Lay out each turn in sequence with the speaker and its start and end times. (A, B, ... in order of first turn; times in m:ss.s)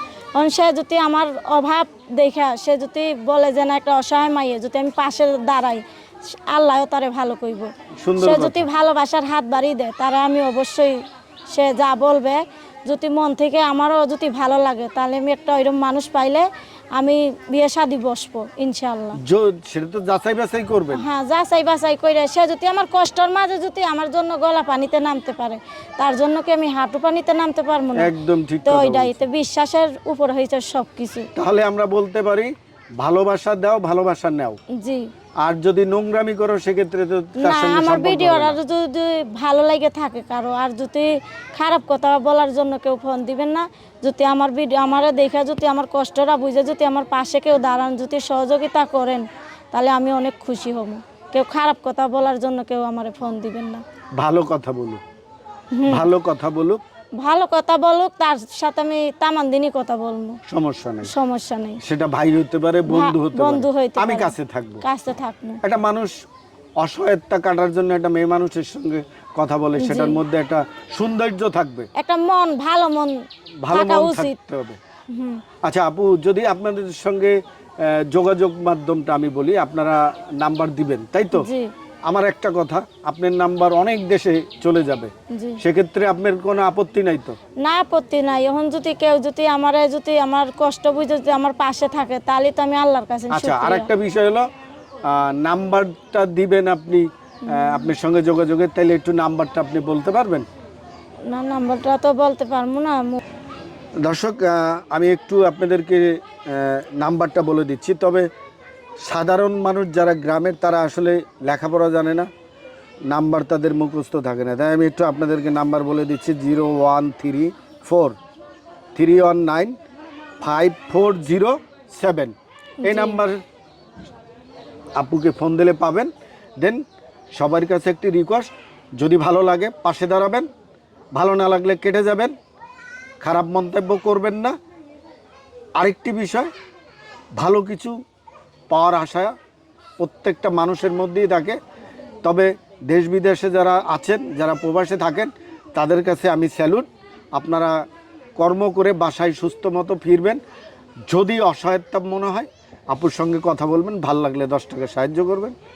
0:00.4-0:05.8 A
0:06.5-0:11.0 A
0:08.0-0:08.7 B
0:11.5-0:19.2 A
0:19.2-0:21.0 B
0:20.9-0:28.1 A
0:28.0-0:29.2 B
0:28.6-0:31.3 A
0:31.4-0:34.6 B
0:34.7-0:35.1 A
0:35.4-0:38.6 B
0:37.4-0:53.8 A
0:54.2-0:55.0 B
0:55.7-0:56.1 A
0:55.8-0:56.8 B
0:57.2-1:00.4 A
1:00.5-1:01.1 B
1:01.0-1:01.8 A
1:01.8-1:04.8 B
1:02.9-1:05.6 A
1:05.6-1:06.1 B
1:06.8-1:11.9 B
1:09.8-1:10.2 A
1:12.0-1:14.3 A
1:13.6-1:14.8 B
1:15.1-1:15.4 A
1:15.6-1:21.5 B
1:21.3-1:21.7 A
1:22.0-1:27.4 B
1:25.3-1:25.6 A
1:27.6-1:33.9 A
1:33.3-1:34.4 B
1:35.0-1:40.4 B
1:37.4-1:37.9 A
1:41.3-1:43.2 A
1:44.0-1:48.3 B
1:49.0-1:52.3 B
1:53.1-1:58.2 B
1:58.9-1:59.7 B
2:00.4-2:03.4 B
2:02.8-2:03.2 A
2:05.0-2:06.8 B
2:07.4-2:10.4 B
2:11.1-2:12.3 B
2:13.2-2:14.5 B
2:15.8-2:16.5 B
2:17.4-2:17.9 B
2:18.7-2:19.3 B
2:20.0-2:21.6 B
2:22.2-2:27.8 B
2:28.4-2:30.4 B
2:31.1-2:35.5 B